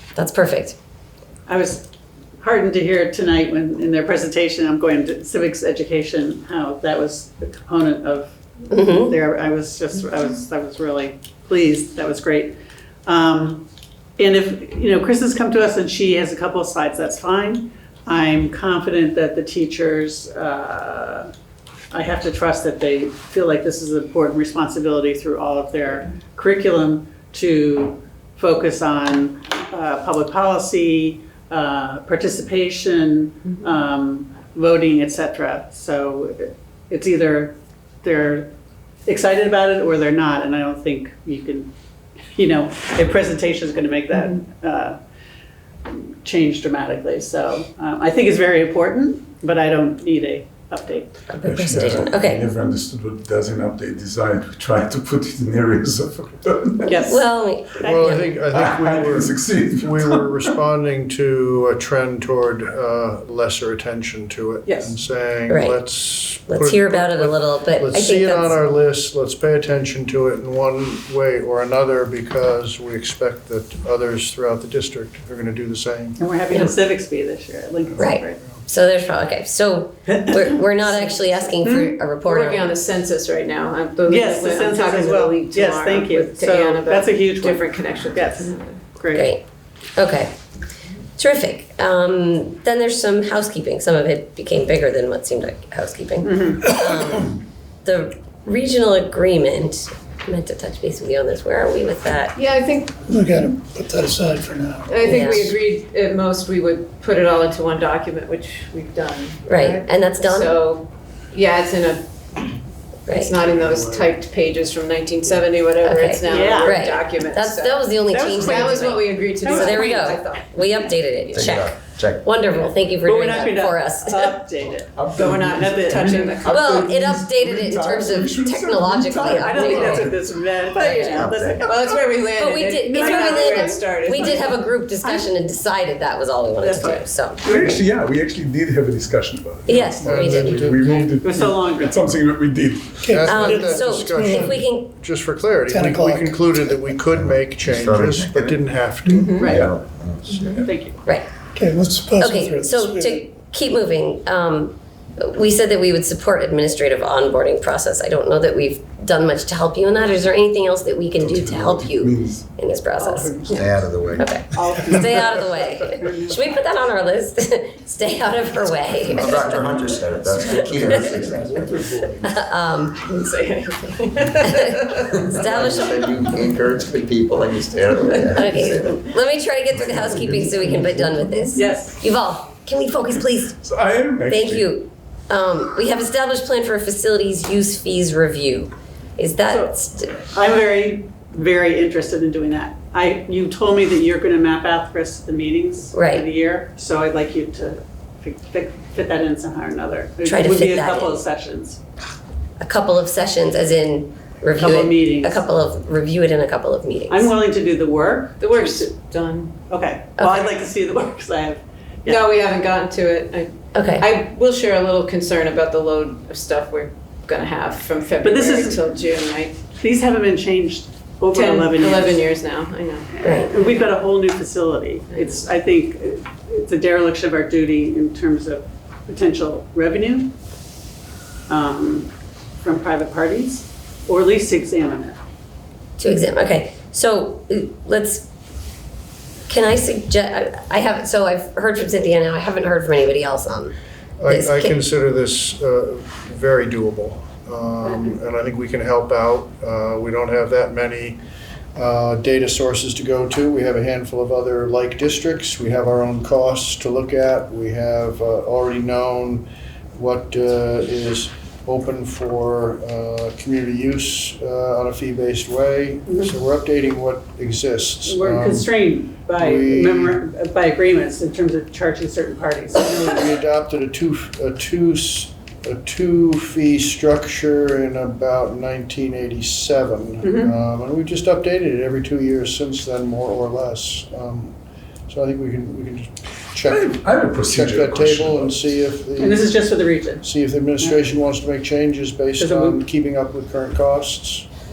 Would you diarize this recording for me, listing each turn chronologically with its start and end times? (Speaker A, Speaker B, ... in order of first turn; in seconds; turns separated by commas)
Speaker A: 0.1-0.8, Speaker B: 1.5-1.8, Speaker B: 2.4-8.3, Speaker A: 8.7-9.1, Speaker B: 8.9-13.6, Speaker B: 14.2-21.3, Speaker B: 21.9-38.5, Speaker B: 39.0-41.7, Speaker B: 42.3-45.0, Speaker B: 45.9-51.1, Speaker A: 51.3-52.5, Speaker C: 51.4-57.0, Speaker D: 56.8-57.2, Speaker A: 57.0-58.3, Speaker E: 57.8-76.2, Speaker C: 58.5-60.5, Speaker D: 64.6-64.9, Speaker A: 65.5-65.8, Speaker A: 66.5-68.6, Speaker B: 76.2-78.4, Speaker E: 77.9-78.6, Speaker A: 78.0-82.7, Speaker B: 80.1-80.6, Speaker D: 81.0-81.5, Speaker B: 81.6-81.9, Speaker D: 82.2-88.8, Speaker B: 84.1-89.3, Speaker A: 89.1-89.4, Speaker A: 90.0-90.3, Speaker A: 91.2-102.4, Speaker B: 96.2-96.6, Speaker D: 102.3-103.0, Speaker F: 103.0-105.3, Speaker D: 104.9-112.4, Speaker A: 105.0-105.5, Speaker A: 109.5-110.6, Speaker A: 113.1-113.3, Speaker D: 113.1-121.5, Speaker A: 115.8-124.4, Speaker B: 116.3-116.8, Speaker B: 118.1-120.0, Speaker G: 121.3-122.3, Speaker B: 123.0-126.4, Speaker G: 125.0-130.1, Speaker D: 125.1-127.0, Speaker A: 126.5-130.1, Speaker C: 128.2-129.1, Speaker B: 129.2-132.1, Speaker D: 130.7-134.6, Speaker A: 130.8-131.3, Speaker G: 131.0-131.8, Speaker A: 132.3-137.8, Speaker B: 132.9-134.5, Speaker B: 135.0-135.3, Speaker B: 136.6-137.7, Speaker C: 137.4-143.1, Speaker A: 139.7-140.6, Speaker E: 140.0-141.5, Speaker B: 141.2-142.0, Speaker F: 143.0-144.5, Speaker E: 143.1-149.4, Speaker A: 143.2-144.9, Speaker F: 145.7-146.9, Speaker G: 147.1-150.7, Speaker D: 149.2-149.6, Speaker C: 149.4-149.8, Speaker B: 150.6-151.0, Speaker F: 151.5-153.2, Speaker A: 152.2-171.2, Speaker C: 161.2-162.4, Speaker B: 163.0-163.8, Speaker G: 163.5-164.3, Speaker B: 164.5-166.4, Speaker G: 169.1-171.8, Speaker C: 170.4-172.3, Speaker A: 172.2-173.1, Speaker D: 173.0-175.1, Speaker A: 174.4-176.3, Speaker G: 175.1-179.0, Speaker A: 178.2-183.6, Speaker G: 179.7-181.4, Speaker B: 181.6-182.0, Speaker C: 183.6-184.7, Speaker A: 184.3-190.2, Speaker B: 189.5-189.7, Speaker B: 190.3-201.8, Speaker A: 195.9-196.2, Speaker A: 200.2-201.2, Speaker A: 202.6-207.3, Speaker B: 204.6-205.4, Speaker B: 207.1-208.9, Speaker D: 208.4-209.6, Speaker B: 209.7-212.2, Speaker A: 210.2-210.5, Speaker D: 212.1-219.6, Speaker A: 213.7-214.1, Speaker B: 218.2-218.8, Speaker B: 219.8-222.2, Speaker D: 221.3-223.1, Speaker B: 223.2-230.3, Speaker A: 223.2-223.5, Speaker D: 225.1-225.4, Speaker B: 231.5-235.2, Speaker A: 236.0-238.3, Speaker A: 239.5-243.7, Speaker E: 244.2-251.2, Speaker A: 244.2-244.8, Speaker E: 251.8-268.7, Speaker B: 268.1-273.0, Speaker E: 269.3-270.2, Speaker E: 272.8-284.5, Speaker B: 280.2-280.5, Speaker E: 285.1-289.5, Speaker C: 286.7-288.8, Speaker B: 289.2-290.2, Speaker E: 290.2-294.4, Speaker B: 292.4-292.8